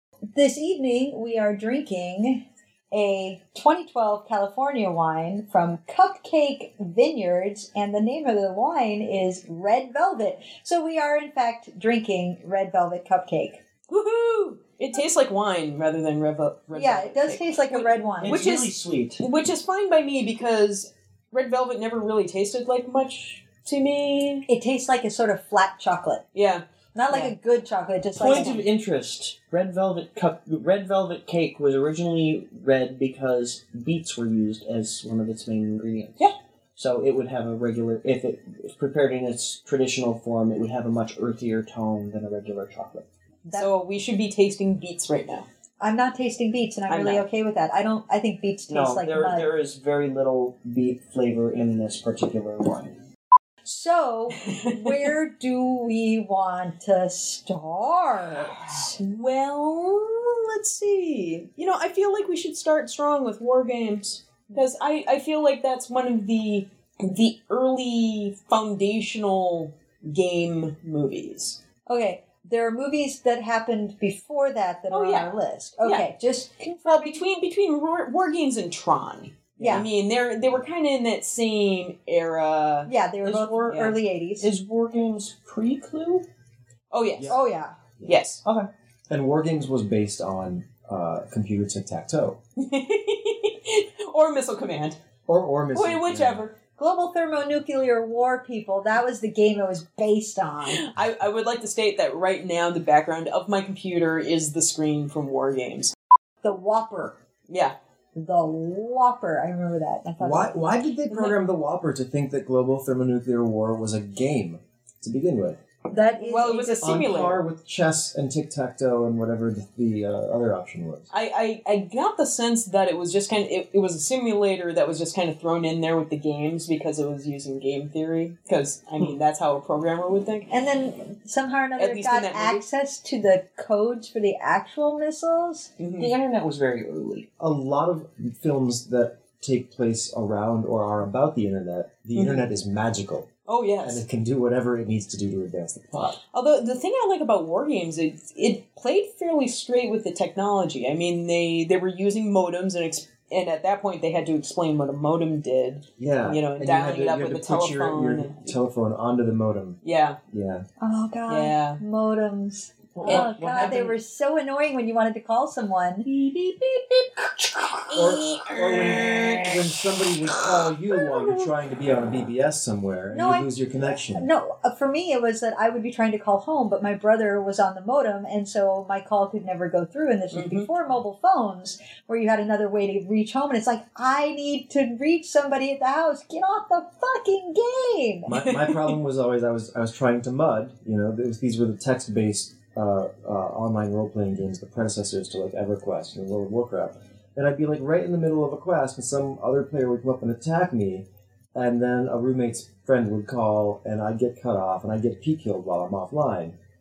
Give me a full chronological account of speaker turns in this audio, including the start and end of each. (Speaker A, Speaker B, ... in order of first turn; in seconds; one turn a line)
Speaker A: 0.3-13.6
Speaker B: 13.9-24.5
Speaker A: 16.7-18.5
Speaker C: 18.2-19.2
Speaker A: 24.5-26.2
Speaker B: 26.3-27.3
Speaker A: 26.9-28.6
Speaker C: 28.1-43.0
Speaker B: 43.5-45.5
Speaker A: 45.8-49.5
Speaker B: 46.9-47.2
Speaker C: 48.7-53.0
Speaker A: 53.6-59.0
Speaker B: 54.4-55.1
Speaker B: 59.0-71.6
Speaker A: 71.9-77.2
Speaker B: 74.9-76.1
Speaker B: 76.8-82.9
Speaker C: 79.6-79.8
Speaker A: 79.6-79.9
Speaker A: 82.9-84.5
Speaker C: 83.2-86.2
Speaker B: 83.7-84.0
Speaker B: 86.9-87.4
Speaker A: 87.3-87.8
Speaker B: 88.0-88.4
Speaker C: 88.4-88.7
Speaker D: 89.1-92.4
Speaker B: 92.6-95.0
Speaker D: 95.3-96.5
Speaker B: 95.7-96.6
Speaker A: 96.8-100.8
Speaker B: 100.7-105.9
Speaker A: 106.4-107.2
Speaker B: 107.5-107.7
Speaker A: 108.1-110.6
Speaker D: 110.2-115.6
Speaker B: 111.1-111.4
Speaker A: 115.9-116.8
Speaker B: 116.2-117.4
Speaker D: 116.8-121.1
Speaker B: 121.1-130.5
Speaker A: 130.5-135.7
Speaker B: 131.8-132.6
Speaker B: 135.8-136.1
Speaker C: 136.0-137.3
Speaker D: 137.4-143.3
Speaker B: 142.1-142.5
Speaker B: 143.5-144.0
Speaker D: 143.8-146.2
Speaker B: 146.3-158.6
Speaker D: 156.0-159.8
Speaker B: 159.8-160.2
Speaker D: 160.3-160.6
Speaker A: 160.8-166.1
Speaker B: 161.3-161.8
Speaker C: 162.9-163.9
Speaker B: 163.0-163.7
Speaker B: 166.1-167.1
Speaker B: 167.9-169.4
Speaker D: 167.9-174.3
Speaker C: 168.6-169.6
Speaker B: 170.9-171.5
Speaker A: 173.1-188.4
Speaker B: 180.3-180.7
Speaker D: 188.2-206.6
Speaker B: 188.4-188.9